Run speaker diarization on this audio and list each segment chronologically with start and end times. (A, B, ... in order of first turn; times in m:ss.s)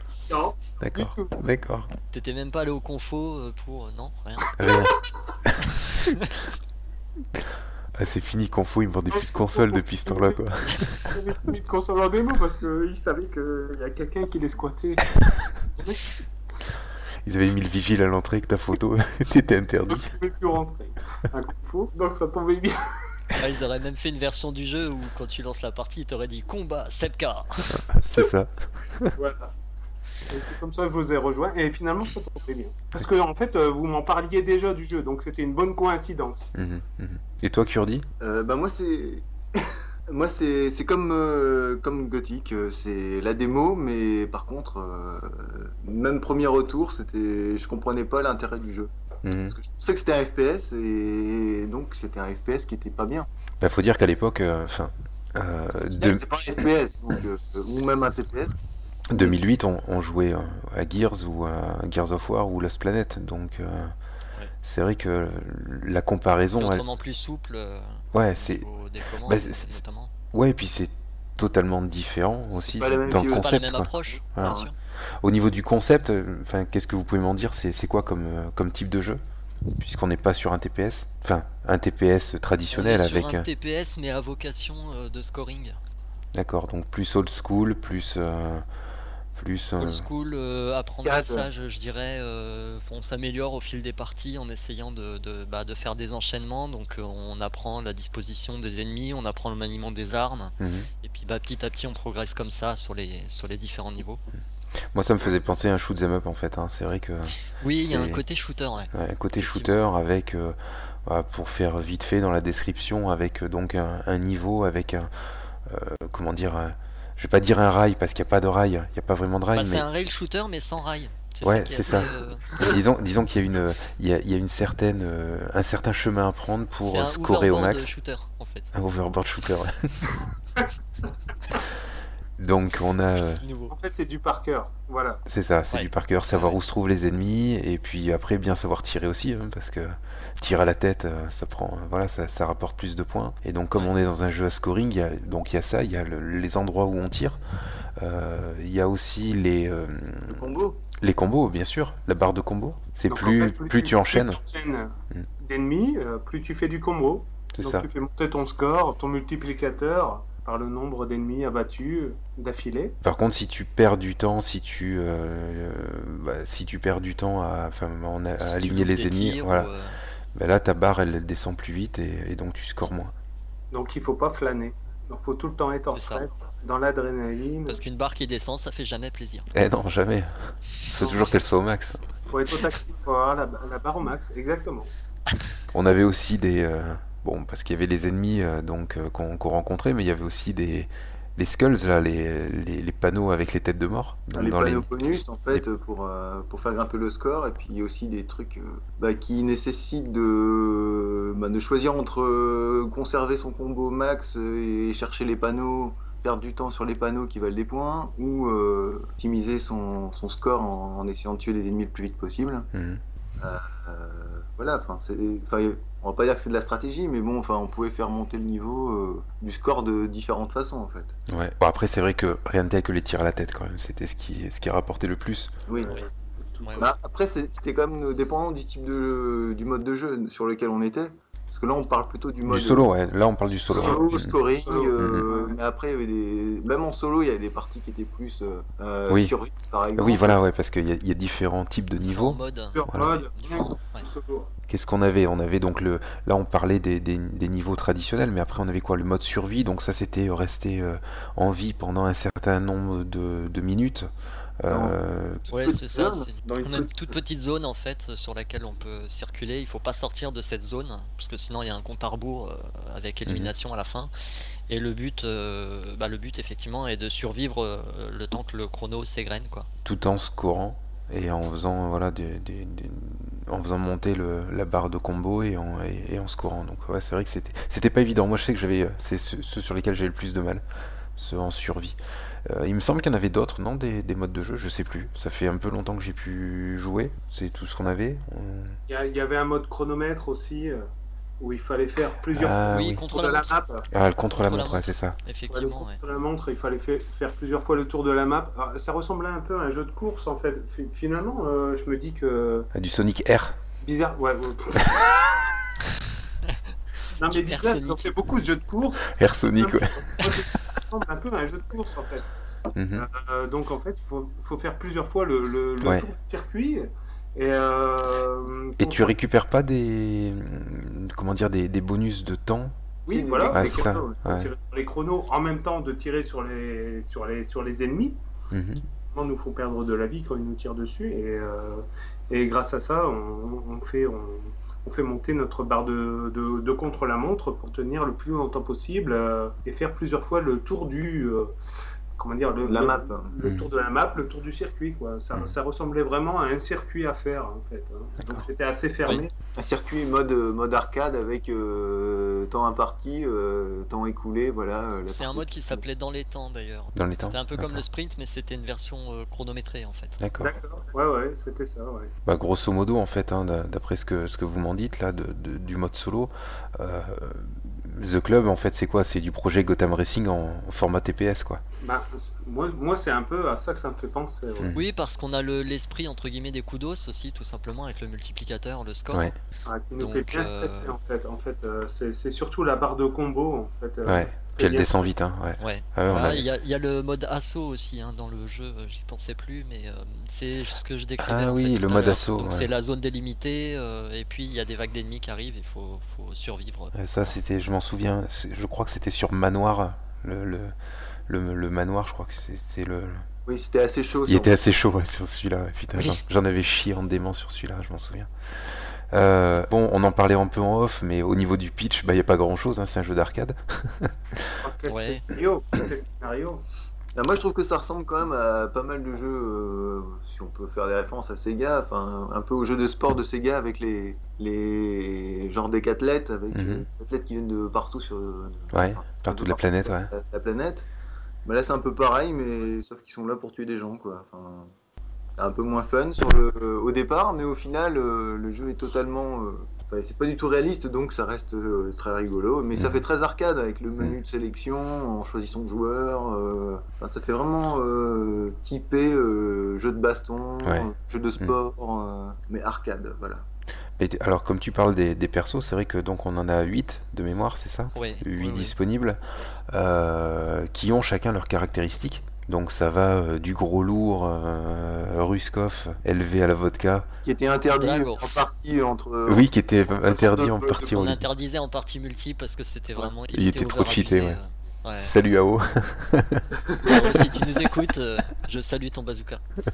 0:00.3-0:01.3 A
0:00.8-0:01.9 B
0:02.1-0:04.5 C
0:04.4-0:05.0 A
0:04.6-0:05.7 B
0:07.9-0:11.0 B
0:09.1-0:16.0 A
0:17.2-0:20.1 B
0:19.9-0:23.1 A
0:23.4-0:27.8 C
0:27.7-0:29.1 B
0:29.2-0:29.5 A
0:30.3-0:36.5 A
0:36.5-0:38.1 B
0:38.2-0:48.9 D
0:49.2-0:49.6 B
0:49.5-0:53.3 D
0:53.6-0:56.2 B
0:55.7-0:58.6 D
0:59.1-1:03.9 B
0:59.1-0:59.4 D
1:04.6-1:06.8 B
1:06.6-1:10.1 C
1:08.1-1:08.6 B
1:09.2-1:09.8 B
1:10.3-1:14.6 B
1:12.5-1:13.5 D
1:13.2-1:14.7 C
1:14.4-1:14.7 D
1:15.2-1:19.2 B
1:19.8-1:23.5 B
1:22.7-1:25.8 C
1:26.3-1:28.6 B
1:29.4-1:30.0 B
1:29.8-1:44.2 C
1:31.0-1:31.5 D
1:40.6-1:40.9 B
1:44.9-1:48.2 B
1:47.6-1:49.7 C
1:48.9-1:55.1 B
1:55.6-1:59.8 B
1:59.5-2:02.6 C
2:01.4-2:07.9 B
2:06.8-2:08.7 C
2:08.7-2:10.2 B
2:12.4-2:13.4 B
2:13.3-2:13.7 C
2:13.7-2:15.2 A
2:15.2-2:27.4 B
2:15.7-2:16.6 C
2:28.0-2:34.4 B
2:30.3-2:30.8 D
2:33.1-2:43.0 A
2:37.5-2:37.9 B
2:43.0-2:49.7 B
2:48.4-2:50.0 C
2:50.3-2:53.1 B
2:53.7-2:57.8 A
2:55.9-2:56.3 C
2:57.7-2:59.5 C
2:59.5-3:00.3 B
3:00.9-3:02.0 B
3:02.3-3:04.9 A
3:05.7-3:14.9 B
3:14.3-3:32.7 D
3:32.7-3:33.0 B
3:33.4-3:41.1 D
3:41.3-3:45.5 B
3:45.7-3:46.0 D
3:45.7-3:46.9 A
3:46.6-3:46.9 C
3:46.8-3:52.9 D
3:52.4-3:54.4 B
3:53.6-4:00.4 D
3:53.7-3:55.6 A
3:55.0-3:55.2 B
3:59.1-3:59.3 B
3:59.9-4:03.1 B
4:02.1-4:04.0 C
4:02.7-4:04.5 A
4:04.7-4:14.1 B
4:14.6-4:15.4 B
4:14.7-4:17.1 D
4:15.5-4:24.1 C
4:23.2-4:23.5 B
4:24.7-4:29.7 C
4:29.8-4:40.6 B
4:41.2-4:48.8 B
4:48.9-4:50.8 A
4:51.4-4:53.9 A
4:52.3-4:53.0 B
4:52.7-4:53.5 C
4:53.9-4:55.2 B
4:54.3-4:56.0 C
4:55.5-5:02.7 A
5:02.7-5:03.6 B
5:03.8-5:05.5 A
5:07.2-5:12.3 A
5:07.3-5:08.1 C
5:09.1-5:10.0 B
5:12.7-5:13.1 B
5:12.9-5:19.1 A
5:15.8-5:16.1 B
5:18.8-5:22.8 B
5:23.0-5:28.2 A
5:23.1-5:24.2 D
5:23.5-5:24.5 B
5:28.5-5:28.8 B
5:29.1-5:41.5 A
5:42.2-5:49.3 A
5:42.6-5:43.3 D
5:43.4-5:43.7 B
5:49.6-5:55.8 D
5:55.1-6:00.2 C
5:56.9-5:57.8 B
6:00.2-6:00.5 B
6:00.4-6:02.1 A
6:02.2-6:11.6 B
6:11.8-6:14.7 A
6:14.6-6:14.8 B
6:14.7-6:19.3 C
6:19.6-6:25.1 A
6:20.0-6:20.9 C
6:24.0-6:26.4 B
6:25.6-6:37.0 C
6:31.2-6:32.7 B
6:36.9-6:40.7 B
6:41.3-6:43.2 B
6:43.4-6:44.6 D
6:44.3-6:48.3 B
6:46.0-6:46.2 C
6:49.1-6:54.5 B
6:54.6-6:56.6 A
6:54.9-6:55.2 C
6:57.1-7:10.9 D
7:06.5-7:06.8 B
7:08.7-7:10.1 B
7:11.4-7:14.7 D
7:15.4-7:33.4 D
7:22.7-7:23.0 B
7:30.6-7:31.6 B
7:34.0-7:47.1 B
7:37.9-7:38.7 C
7:47.2-7:51.0 D
7:47.7-7:48.3 C
7:49.3-7:51.2 B
7:50.8-7:55.1 C
7:53.3-7:54.4 B
7:55.0-7:56.5 B
7:56.8-7:59.4 C